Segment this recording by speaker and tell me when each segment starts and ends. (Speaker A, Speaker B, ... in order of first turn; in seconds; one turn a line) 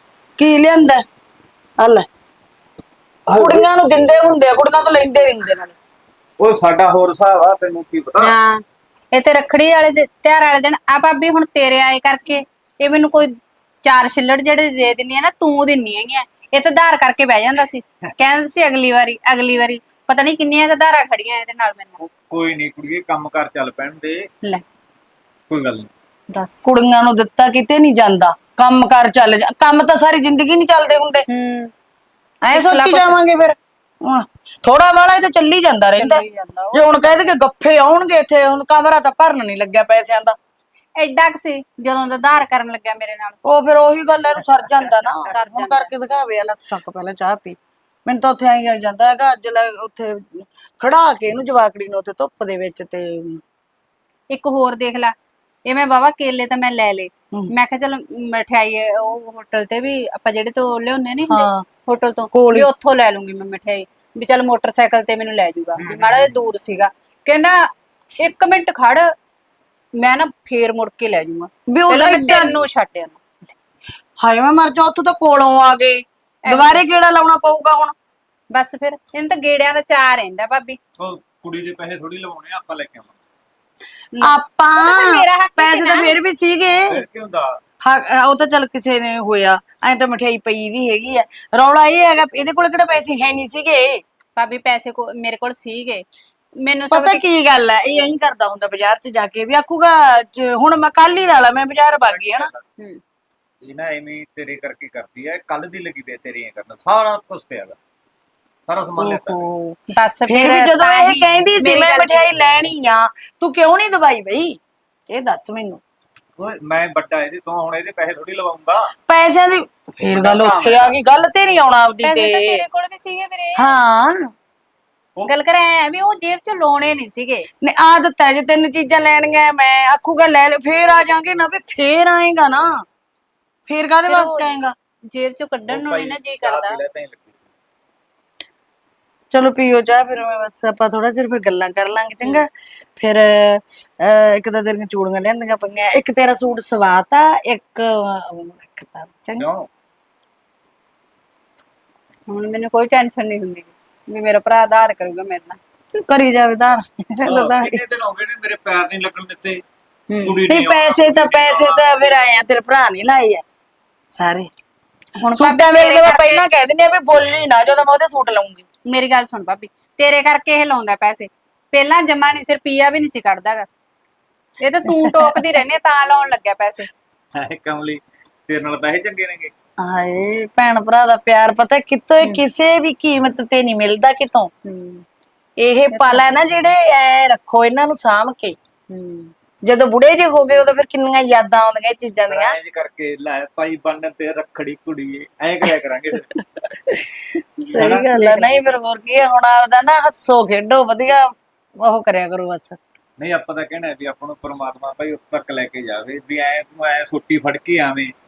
Speaker A: 0.4-1.0
Speaker A: 1.8-2.1
Speaker B: 3.3-3.7
Speaker A: 3.3-5.8
Speaker B: 6.4-8.3
Speaker C: 8.2-8.6
Speaker C: 9.1-22.0
Speaker B: 22.2-24.3
Speaker B: 25.5-25.9
Speaker C: 26.3-26.7
Speaker A: 26.6-31.2
Speaker C: 31.3-31.7
Speaker A: 32.4-40.4
Speaker C: 32.5-33.2
Speaker C: 36.0-37.0
Speaker C: 41.0-43.4
Speaker A: 43.5-53.4
Speaker C: 45.3-45.9
Speaker C: 54.3-55.1
Speaker C: 55.6-67.6
Speaker A: 61.3-61.6
Speaker A: 62.3-62.7
Speaker B: 65.8-66.3
Speaker C: 68.2-69.1
Speaker C: 70.0-73.2
Speaker A: 71.7-72.6
Speaker A: 74.2-78.0
Speaker C: 76.5-76.8
Speaker C: 78.5-80.8
Speaker B: 81.0-83.2
Speaker C: 84.1-86.2
Speaker A: 84.2-87.0
Speaker B: 86.9-87.6
Speaker A: 87.8-94.0
Speaker C: 94.4-96.0
Speaker C: 96.7-97.2
Speaker A: 96.9-102.5
Speaker B: 101.8-102.7
Speaker B: 103.6-107.8
Speaker B: 108.7-109.5
Speaker C: 109.0-112.2
Speaker A: 109.2-109.5
Speaker A: 110.3-114.6
Speaker A: 115.1-115.8
Speaker B: 116.4-118.9
Speaker A: 119.1-122.6
Speaker B: 120.1-121.0
Speaker C: 122.0-123.7
Speaker A: 123.6-124.3
Speaker C: 125.3-127.5
Speaker A: 127.6-132.8
Speaker A: 133.7-134.8
Speaker C: 134.1-134.6
Speaker C: 135.1-136.8
Speaker B: 135.7-137.4
Speaker A: 139.3-149.5
Speaker B: 149.4-149.7
Speaker C: 152.3-155.6
Speaker A: 156.1-157.8
Speaker B: 157.2-159.6
Speaker C: 160.1-160.4
Speaker B: 160.2-162.2
Speaker A: 160.5-163.4
Speaker A: 164.2-164.5
Speaker C: 165.2-166.4
Speaker A: 165.3-168.7
Speaker C: 168.9-173.7
Speaker C: 174.6-176.9
Speaker A: 174.9-175.4
Speaker B: 177.4-179.5
Speaker A: 179.8-184.5
Speaker C: 184.7-185.0
Speaker A: 185.6-188.6
Speaker C: 185.9-186.5
Speaker C: 188.9-189.3
Speaker A: 189.7-192.6
Speaker B: 192.3-196.3
Speaker A: 196.4-197.0
Speaker A: 197.6-201.3
Speaker B: 197.8-198.1
Speaker C: 198.0-198.6
Speaker A: 201.8-202.8
Speaker B: 203.2-208.1